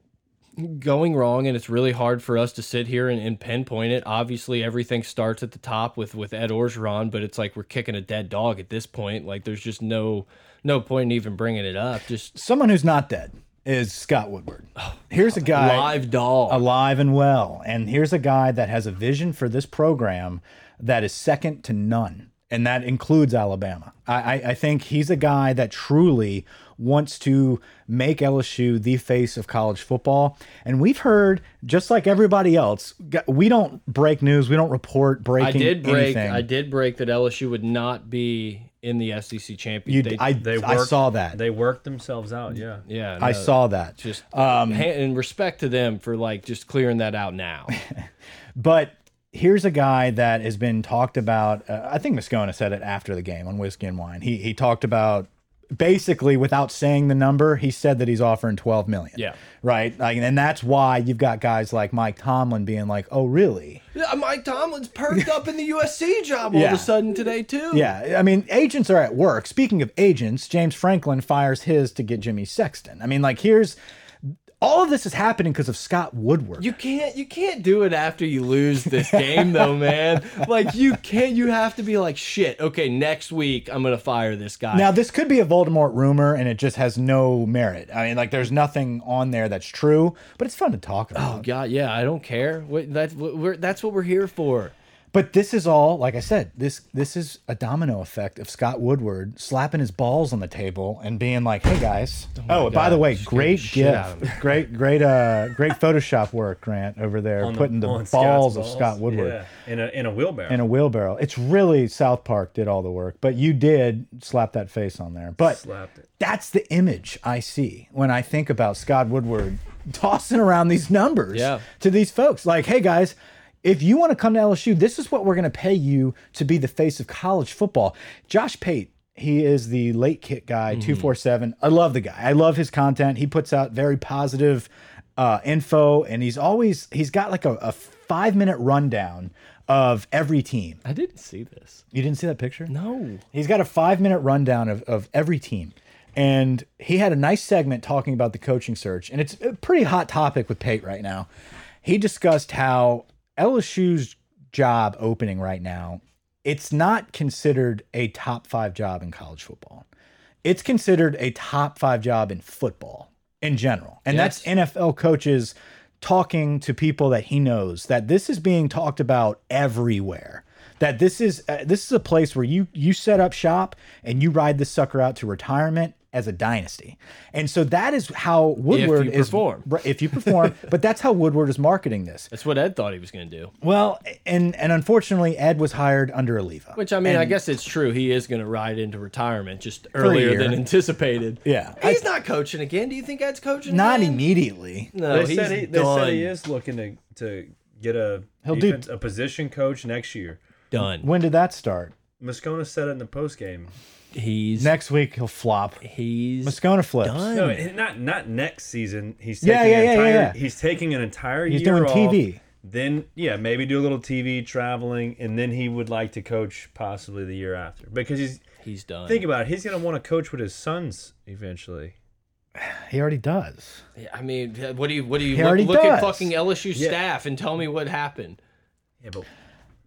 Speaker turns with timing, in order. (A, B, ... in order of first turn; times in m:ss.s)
0:00.6-0:12.3 A
0:12.3-0:36.4 B
0:14.8-0:16.6 A
0:35.4-0:40.3 A
0:39.9-0:41.4 B
0:40.4-0:42.8 C
0:42.8-0:47.8 A
0:43.2-0:44.9 B
0:47.7-0:48.0 B
0:48.6-1:03.8 B
1:03.9-1:07.9 A
1:06.5-1:06.9 B
1:07.7-1:13.8 B
1:14.3-1:16.7 B
1:16.6-1:24.9 A
1:19.0-1:19.7 B
1:24.7-1:31.4 B
1:31.1-1:34.7 A
1:35.1-1:49.4 B
1:42.4-1:44.4 A
1:47.4-1:50.6 C
1:50.5-1:55.6 B
1:55.4-1:56.1 C
1:56.2-2:20.8 B
2:01.3-2:01.6 A
2:10.7-2:11.1 A
2:20.8-2:21.8 A
2:21.9-2:22.7 B
2:22.7-2:23.2 A
2:23.3-2:31.3 B
2:31.8-2:39.8 B
2:40.4-3:02.3 B
2:44.1-2:44.5 A
2:58.7-2:59.7 A
3:02.3-3:03.5 A
3:03.6-3:07.4 B
3:06.8-3:14.2 A
3:10.0-3:10.6 B
3:11.4-3:12.0 B
3:13.6-3:14.9 B
3:14.9-3:16.3 A
3:15.1-3:20.4 C
3:18.4-3:18.8 B
3:20.7-3:21.1 A
3:20.8-3:21.9 B
3:22.2-3:23.7 C
3:24.1-3:24.7 A
3:24.6-3:25.8 B
3:25.8-3:27.7 A
3:26.4-3:27.3 B
3:27.3-3:38.4 C
3:29.4-3:30.4 B
3:31.5-3:32.4 B
3:38.6-3:39.2 A
3:39.1-3:41.9 C
3:42.6-3:43.8 B
3:44.0-3:48.4 A
3:45.3-3:46.3 B